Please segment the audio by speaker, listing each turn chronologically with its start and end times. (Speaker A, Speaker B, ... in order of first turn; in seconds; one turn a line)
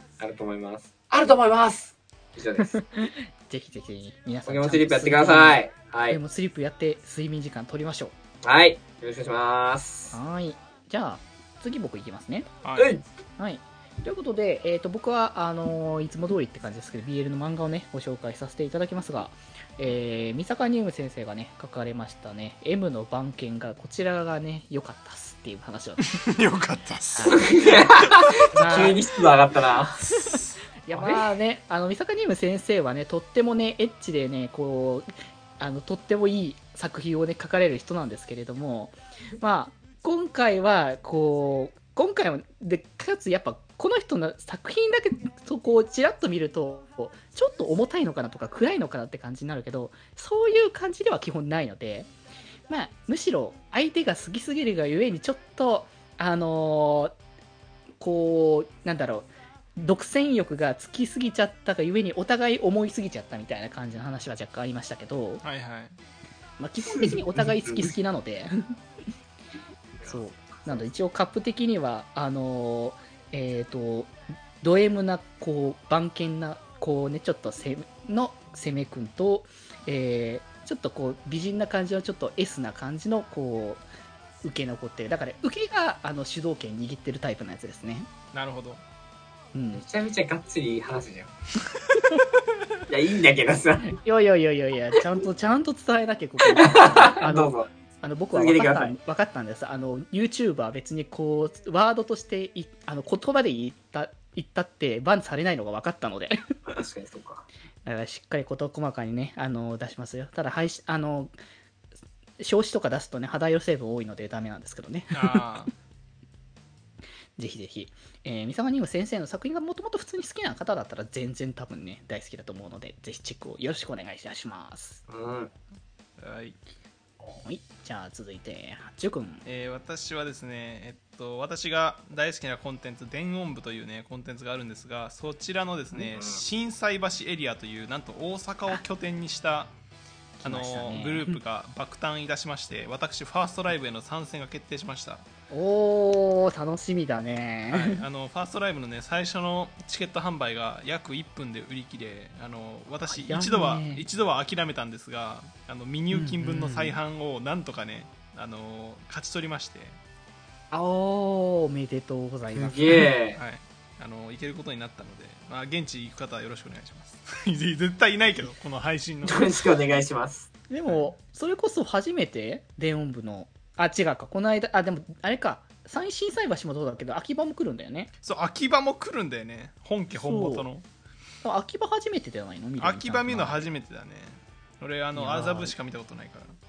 Speaker A: 0.2-2.7
Speaker B: 2.6-8.1
Speaker A: 4.5-6.2
Speaker A: 8.4-10.1
Speaker B: 10.1-12.5
Speaker C: 12.6-12.9
Speaker A: 12.8-13.0
Speaker B: 13.4-26.0
Speaker C: 26.0-29.0
Speaker B: 27.1-27.5
Speaker A: 27.3-29.9
Speaker B: 28.5-29.0
Speaker C: 30.0-31.1
Speaker B: 30.8-52.1
Speaker B: 52.7-57.1
Speaker B: 58.0-65.4
Speaker C: 65.4-66.0
Speaker B: 66.6-68.5
Speaker A: 67.0-67.9
Speaker A: 70.0-70.8
Speaker B: 70.1-83.8
Speaker B: 84.4-88.1
Speaker C: 88.3-88.8
Speaker B: 89.5-89.8
Speaker A: 89.7-91.3
Speaker A: 92.9-94.0
Speaker B: 93.9-106.4
Speaker A: 96.5-97.7
Speaker A: 98.3-98.9
Speaker A: 106.7-107.4
Speaker B: 107.8-111.3
Speaker B: 112.4-115.4
Speaker C: 115.1-115.7
Speaker B: 117.4-125.0
Speaker A: 125.1-125.5
Speaker C: 126.2-126.6
Speaker B: 127.4-129.4
Speaker C: 129.4-139.7
Speaker B: 140.4-141.3
Speaker C: 140.4-145.2
Speaker B: 145.5-148.0
Speaker C: 147.7-160.0
Speaker B: 153.1-154.1
Speaker B: 156.1-157.0
Speaker B: 160.7-163.1
Speaker A: 162.5-163.4
Speaker C: 163.3-169.6
Speaker A: 169.2-170.5
Speaker B: 170.7-178.1
Speaker C: 170.8-171.1
Speaker C: 178.2-180.8
Speaker B: 180.1-180.7
Speaker B: 181.4-183.7
Speaker C: 182.8-186.6
Speaker B: 185.1-185.8